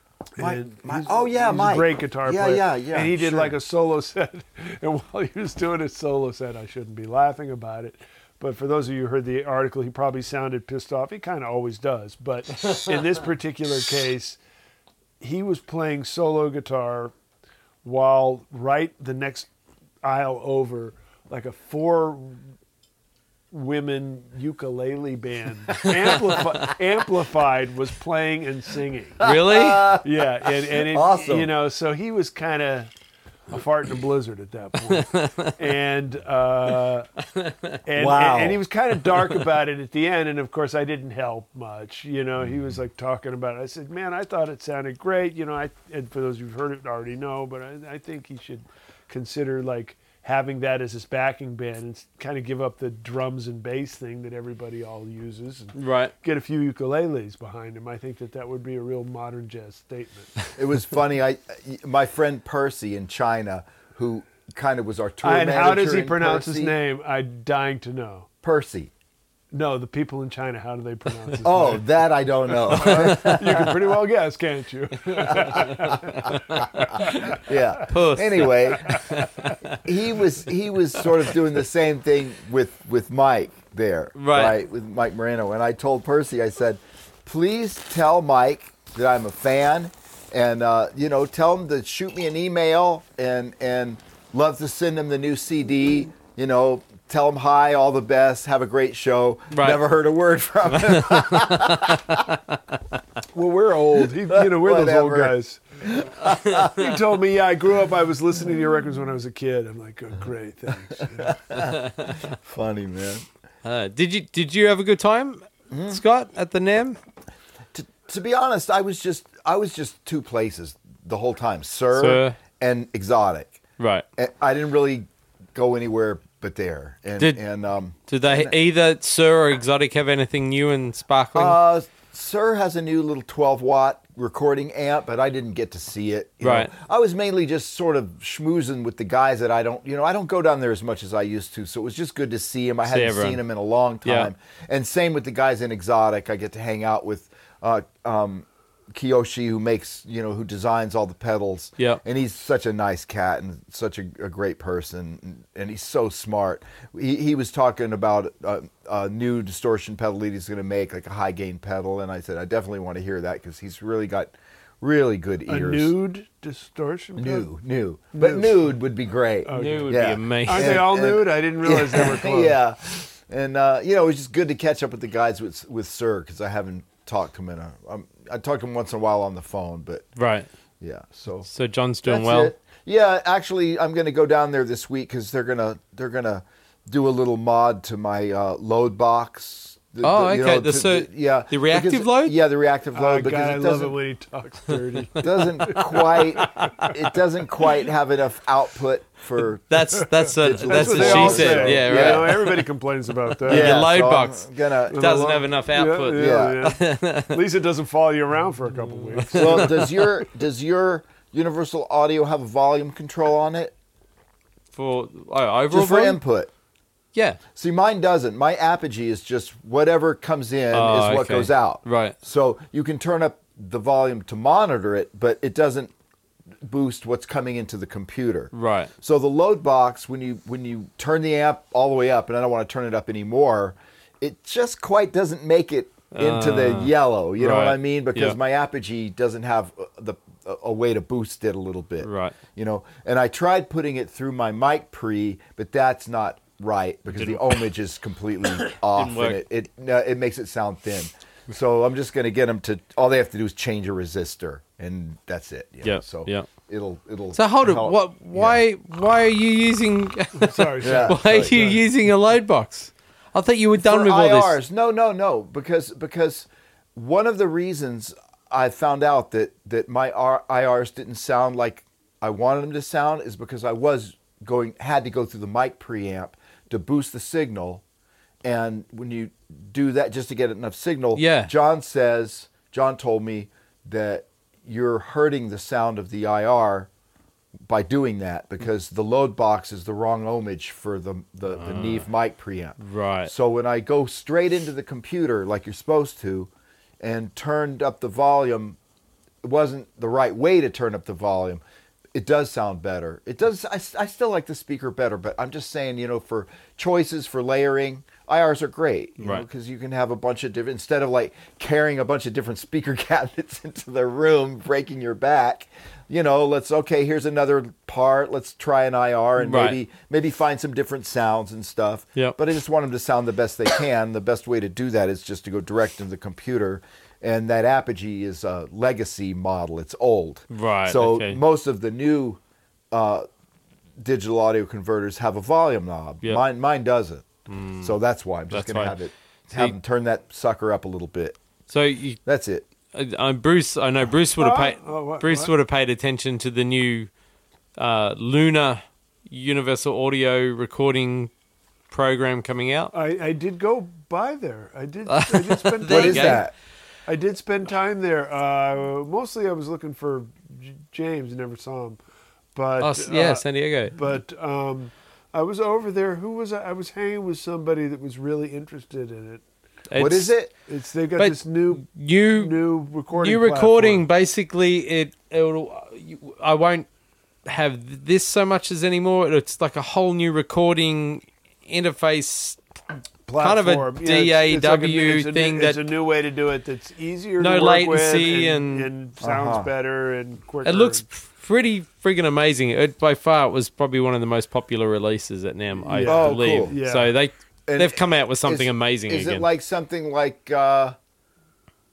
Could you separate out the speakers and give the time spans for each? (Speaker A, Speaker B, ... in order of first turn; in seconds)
Speaker A: 0.4-14.4, 15.2-17.1, 17.8-19.5, 20.0-22.4, 23.5-29.2, 30.0-32.9, 33.5-37.1, 37.9-60.4, 65.2-68.3, 69.5-71.8, 72.7-77.4, 103.3-105.6, 106.5-111.4, 165.5-167.5, 168.1-168.7, 169.4-172.6, 192.9-196.9, 200.7-203.9, 204.9-209.9, 260.4-261.8, 344.4-345.5, 352.9-356.5, 357.1-362.0, 362.6-369.4, 370.7-374.1, 383.3-391.1, 395.8-397.1
Speaker B: 0.4-3.6, 29.2-30.1, 30.6-31.5, 38.0-38.6, 60.6-66.8, 68.4-68.9, 71.4-73.8, 75.3-76.3, 76.9-79.1, 79.8-102.2, 104.3-106.8, 111.0-113.2, 115.7-116.0, 117.7-123.6, 124.2-128.6, 131.3-165.9, 167.2-180.1, 180.8-181.5, 182.0-194.0, 195.2-202.4, 203.5-205.1, 206.2-206.6, 209.3-213.7, 215.7-216.5, 217.6-225.9, 226.6-258.6, 260.8-261.6, 263.8-277.8, 278.4-286.9, 287.7-296.5, 297.0-298.8, 299.4-301.6, 302.1-332.4, 332.9-333.3, 334.0-337.3, 337.8-341.4, 342.2-342.6, 355.9-356.5, 369.9-370.5, 389.2-389.7, 396.0-396.8, 397.7-401.0
Speaker C: 29.2-30.0, 34.9-35.5, 37.4-37.8, 55.8-56.1, 72.8-73.4, 77.1-79.8, 84.2-84.6, 99.5-99.8, 100.7-102.4, 111.8-112.2, 113.6-117.0, 121.9-122.4, 123.8-124.0, 128.1-131.6, 136.4-136.7, 142.9-143.4, 144.0-144.3, 169.5-170.9, 180.2-180.5, 181.5-182.5, 190.0-192.4, 199.7-202.6, 203.4-207.4, 209.0-210.0, 214.7-216.2, 217.2-217.4, 220.7-222.2, 228.5-228.9, 236.1-238.4, 242.0-242.3, 247.1-247.6, 248.6-249.4, 255.8-256.5, 257.4-264.6, 281.1-281.5, 291.6-292.1, 292.8-293.3, 309.2-309.4, 319.4-319.8, 330.5-331.4, 337.5-337.9, 338.5-339.0, 339.5-339.8, 341.7-342.2, 342.9-347.1, 347.8-351.3, 351.9-352.9, 355.1-356.5, 362.8-363.9, 369.9-370.3, 371.2-372.6, 373.1-376.9, 377.5-382.6, 383.4-385.8, 387.4-388.9, 390.6-399.5